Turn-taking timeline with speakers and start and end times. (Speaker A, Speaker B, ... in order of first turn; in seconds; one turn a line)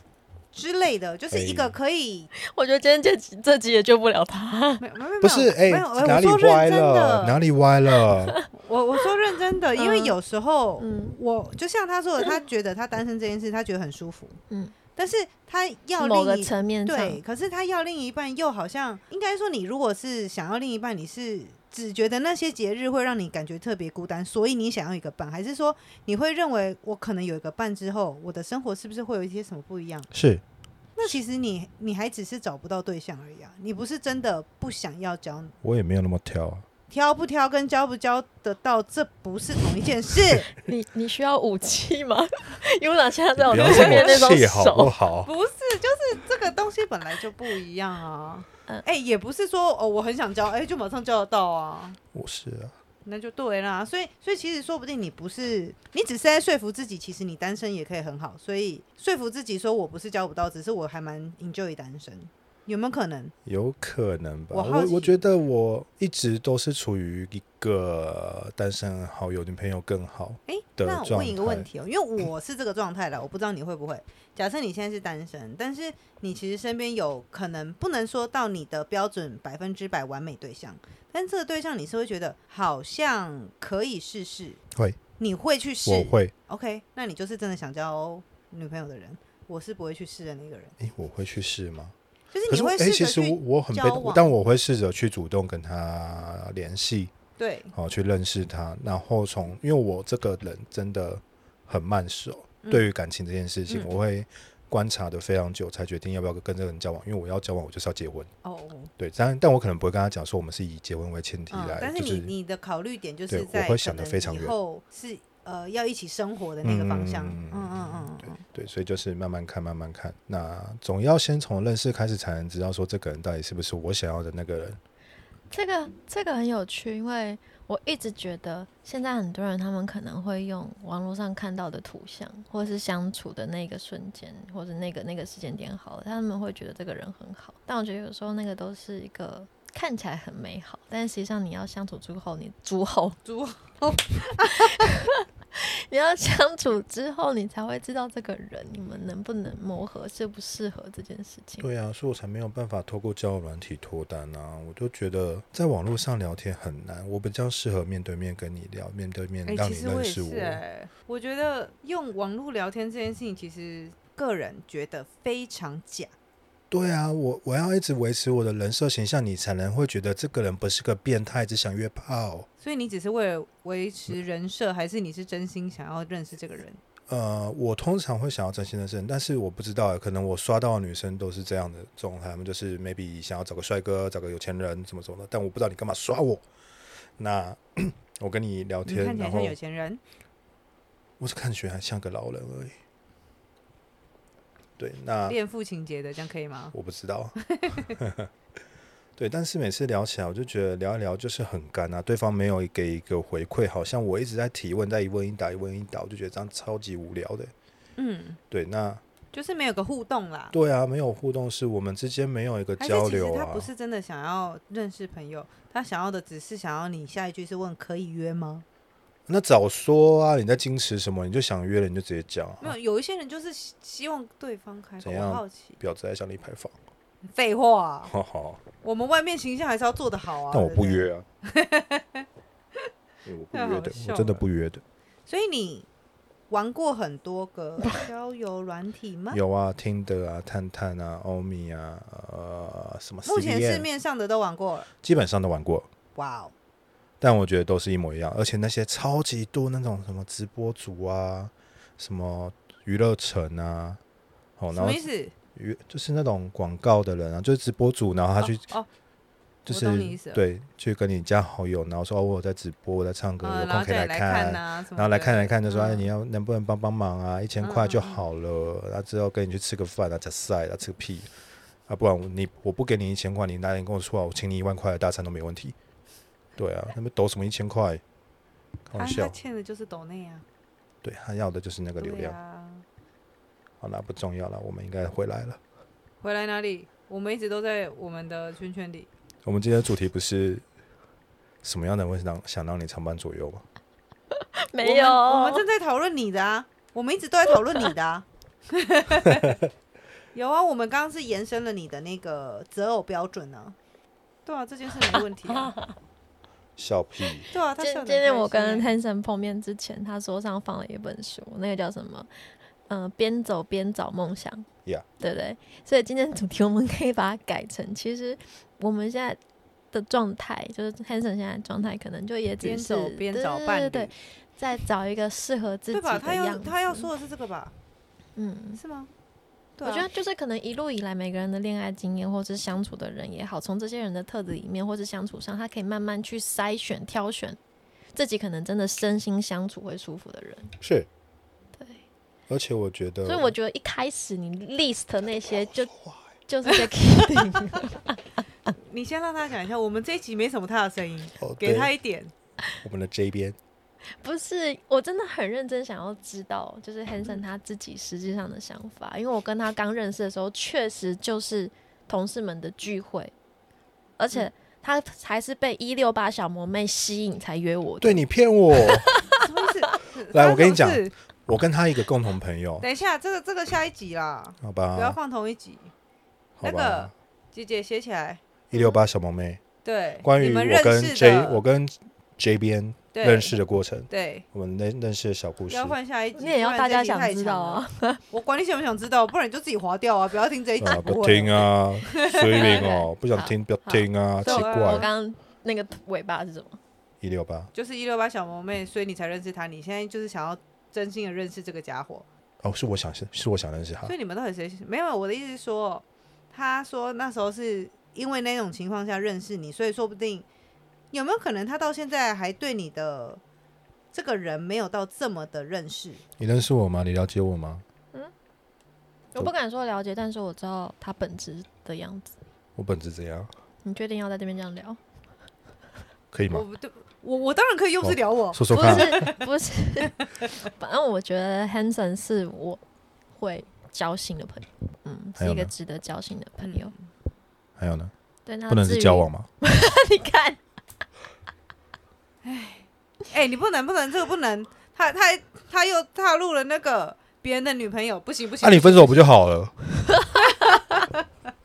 Speaker A: 0.5-2.3
Speaker B: 1.3-1.8
Speaker C: 2.3-4.8
Speaker A: 4.8-7.4
Speaker B: 5.2-8.4
Speaker A: 8.5-14.4
Speaker C: 9.8-10.2
Speaker C: 10.8-11.2
Speaker C: 14.5-14.7
Speaker A: 15.0-30.1
Speaker C: 16.0-17.2
Speaker B: 30.1-30.4
Speaker A: 31.0-35.5
Speaker B: 35.6-36.7
Speaker A: 36.9-40.5
Speaker C: 40.6-44.9
Speaker B: 43.4-45.3
Speaker A: 43.5-44.3
Speaker A: 45.2-52.0
Speaker B: 52.1-52.8
Speaker A: 53.0-63.3
Speaker B: 63.5-71.7
Speaker A: 64.5-65.2
Speaker A: 70.5-84.6
Speaker B: 84.7-85.0
Speaker A: 85.2-90.8
Speaker B: 85.8-86.3
Speaker B: 90.8-92.0
Speaker A: 92.3-94.3
Speaker B: 92.5-97.1
Speaker A: 97.4-97.7
Speaker B: 97.7-108.3
Speaker A: 108.4-108.9
Speaker B: 109.0-112.3
Speaker A: 111.5-118.4
Speaker B: 113.3-114.5
Speaker B: 116.6-124.8
Speaker C: 125.5-143.2
Speaker A: 143.2-144.9
Speaker C: 144.4-151.7
Speaker B: 151.6-160.6
Speaker A: 159.5-166.1
Speaker B: 166.7-172.5
Speaker A: 172.6-176.8
Speaker B: 177.1-186.4
Speaker B: 187.2-189.6
Speaker A: 188.9-190.0
Speaker B: 191.2-192.8
Speaker B: 194.8-195.4
Speaker A: 195.3-196.7
Speaker B: 196.7-198.3
Speaker A: 197.4-197.9
Speaker B: 199.2-207.5
Speaker A: 208.0-208.4
Speaker B: 208.5-209.0
Speaker A: 209.3-210.5
Speaker B: 210.5-213.7
Speaker A: 212.8-218.7
Speaker B: 219.3-222.8
Speaker A: 222.6-225.8
Speaker B: 225.0-226.8
Speaker A: 227.2-228.1
Speaker B: 228.1-228.6
Speaker A: 228.8-232.2
Speaker B: 230.5-231.2
Speaker B: 233.2-234.8
Speaker A: 233.5-234.4
Speaker A: 235.3-235.9
Speaker A: 236.5-239.4
Speaker B: 239.3-243.9
Speaker A: 243.3-244.9
Speaker B: 245.0-245.9
Speaker A: 246.2-246.5
Speaker B: 247.2-254.0
Speaker B: 254.6-255.0
Speaker A: 254.7-255.3
Speaker B: 255.6-258.7
Speaker A: 258.4-258.9
Speaker B: 259.7-271.3
Speaker A: 259.7-260.4
Speaker A: 263.4-266.1
Speaker A: 267.6-268.2
Speaker B: 271.9-275.8
Speaker B: 276.6-278.0
Speaker B: 278.9-279.4
Speaker A: 279.0-280.4
Speaker B: 281.0-282.4
Speaker A: 282.0-282.9
Speaker B: 283.8-285.6
Speaker A: 286.2-289.1
Speaker B: 289.4-290.6
Speaker B: 291.6-293.6
Speaker C: 294.3-295.6
Speaker A: 294.8-299.6
Speaker A: 300.3-303.8
Speaker A: 304.5-305.8
Speaker B: 306.8-307.5
Speaker A: 307.5-308.9
Speaker C: 307.8-312.3
Speaker C: 312.9-314.7
Speaker C: 315.2-319.4
Speaker C: 319.9-327.1
Speaker A: 322.6-324.1
Speaker A: 325.9-327.7
Speaker C: 328.4-328.8
Speaker A: 328.8-329.1
Speaker A: 329.8-330.1
Speaker C: 329.8-337.6
Speaker C: 338.1-340.8
Speaker B: 340.8-341.1
Speaker B: 342.5-343.5
Speaker C: 343.2-345.9
Speaker B: 345.9-346.2
Speaker C: 346.5-348.2
Speaker A: 348.7-352.3
Speaker B: 351.4-351.9
Speaker B: 352.8-353.6
Speaker C: 354.2-363.3
Speaker C: 364.2-368.3
Speaker B: 368.0-369.1
Speaker C: 368.8-369.4
Speaker A: 369.4-371.1
Speaker B: 370.3-372.9
Speaker A: 372.8-375.9
Speaker B: 374.6-375.2
Speaker B: 376.6-377.1
Speaker A: 376.6-378.4
Speaker B: 378.7-379.6
Speaker A: 379.8-381.6
Speaker B: 380.2-386.0
Speaker A: 383.1-383.6
Speaker A: 384.1-384.4
Speaker A: 385.7-392.9
Speaker C: 386.4-388.2
Speaker B: 390.8-395.1
Speaker C: 392.2-396.8
Speaker A: 394.4-395.1
Speaker B: 397.2-397.7
Speaker A: 397.7-402.2
Speaker B: 402.6-404.1
Speaker A: 404.1-410.5
Speaker A: 411.1-413.4
Speaker A: 414.1-416.2
Speaker B: 416.4-417.8
Speaker C: 419.3-422.4
Speaker B: 422.8-423.5
Speaker C: 423.8-425.0
Speaker B: 426.3-426.6
Speaker A: 426.5-429.5
Speaker B: 428.0-429.3
Speaker C: 428.7-432.8
Speaker C: 433.3-436.9
Speaker B: 435.4-435.7
Speaker A: 436.6-437.0
Speaker B: 437.8-438.1
Speaker C: 438.4-440.6
Speaker B: 438.7-439.5
Speaker A: 442.4-449.2
Speaker B: 448.6-449.8
Speaker C: 450.1-450.8
Speaker A: 450.6-451.1